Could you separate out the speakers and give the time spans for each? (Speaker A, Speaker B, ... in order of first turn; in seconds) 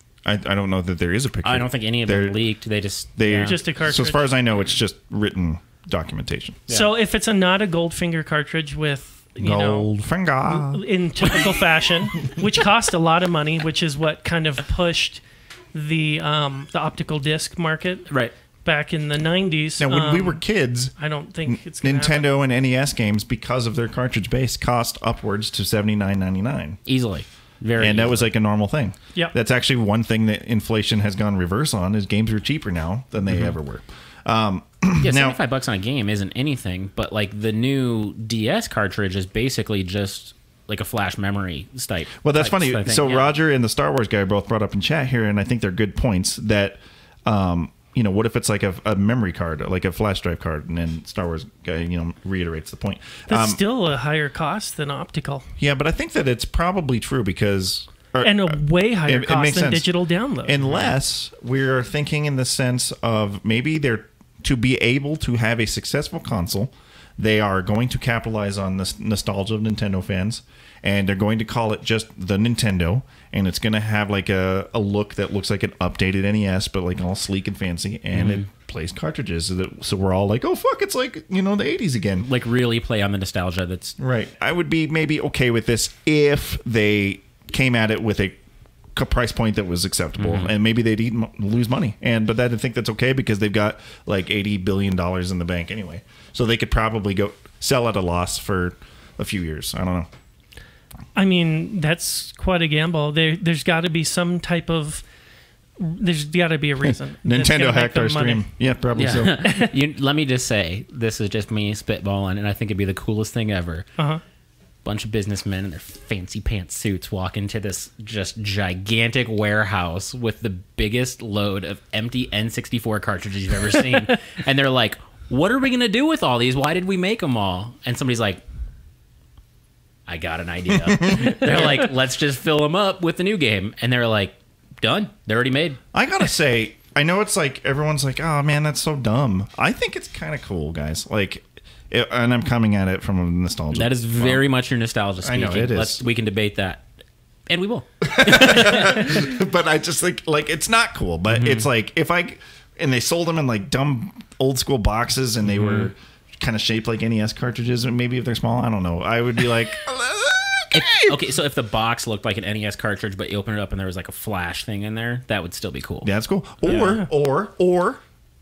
Speaker A: 0.2-2.4, 3.1-6.6, 9.4-10.8, 19.8-26.8, 27.8-35.4, 42.2-53.6, 55.6-82.3, 84.0-88.4, 88.9-100.1, 106.9-109.4, 135.9-144.4, 145.2-146.0, 148.0-161.1, 166.0-168.0
Speaker B: 1.4-3.6, 26.9-28.3, 33.3-33.5, 35.0-43.3, 60.6-60.9, 78.1-78.5, 82.2-84.0, 90.2-90.5, 109.0-113.9, 114.8-128.4, 130.1-135.8, 143.7-146.8, 147.5-149.2, 151.3-151.7, 155.4-155.9, 160.7-166.1, 166.6-167.0
Speaker C: 3.4-4.3, 6.7-9.9, 10.4-18.1, 18.6-22.3, 53.3-55.5, 58.2-60.6, 101.1-105.0, 105.8-108.5, 109.4-109.7